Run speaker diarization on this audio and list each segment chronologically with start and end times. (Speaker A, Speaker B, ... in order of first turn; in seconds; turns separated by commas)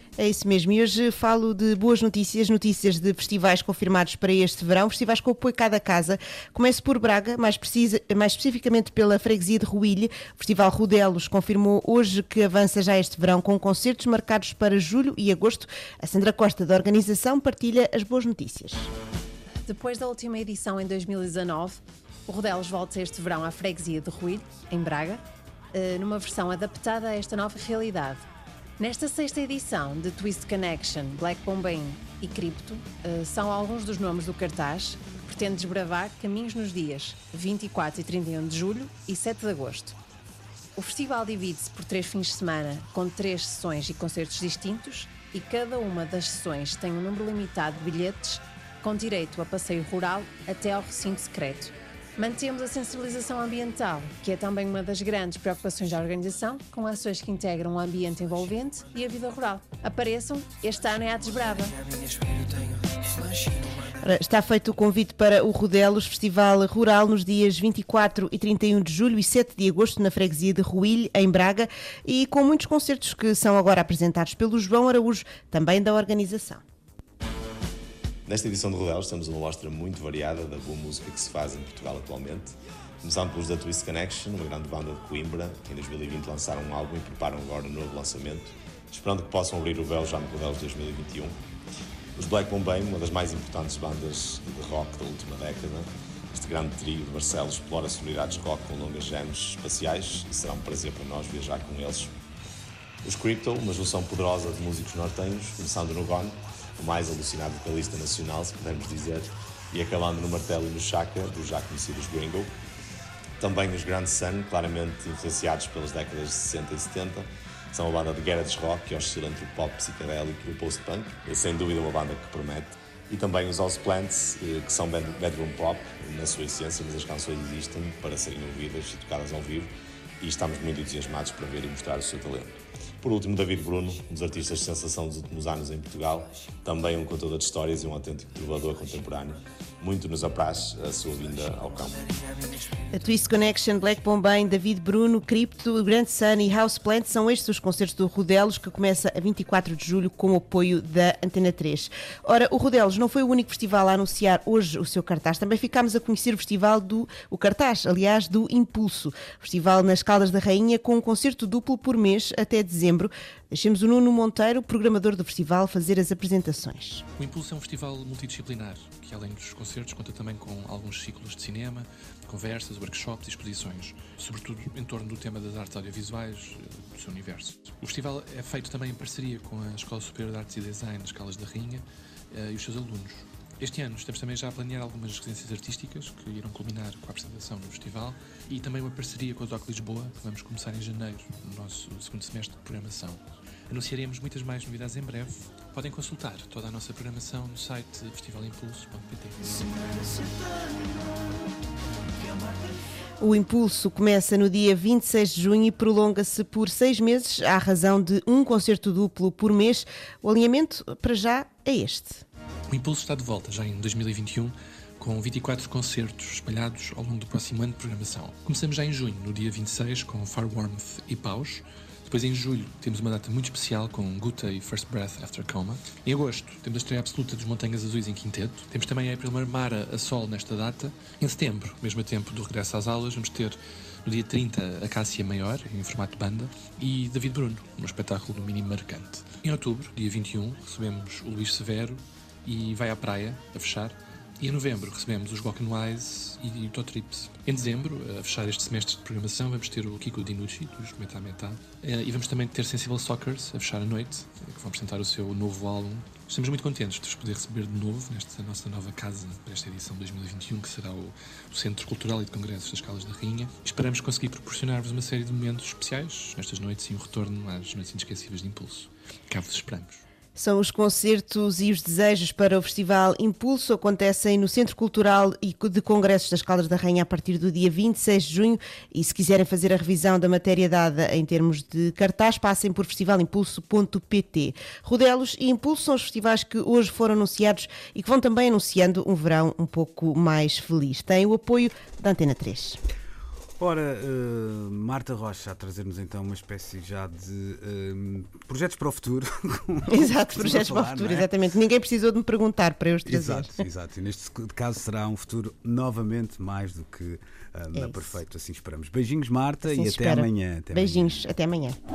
Speaker A: 0.2-18.9, Speaker B: 19.6-25.2, Speaker B: 25.7-28.2, Speaker B: 28.8-40.0, Speaker B: 40.8-61.8, Speaker A: 64.0-76.6, Speaker C: 78.3-91.4, Speaker C: 92.2-102.1, Speaker C: 103.0-112.5, Speaker C: 113.4-142.1, Speaker A: 142.9-167.1, Speaker D: 167.2-199.8, Speaker A: 203.2-212.2, Speaker D: 212.7-270.0, Speaker A: 270.4-292.8, Speaker E: 293.6-301.3, Speaker A: 299.9-303.6, Speaker E: 303.1-311.2, Speaker A: 307.7-308.2, Speaker A: 309.6-311.8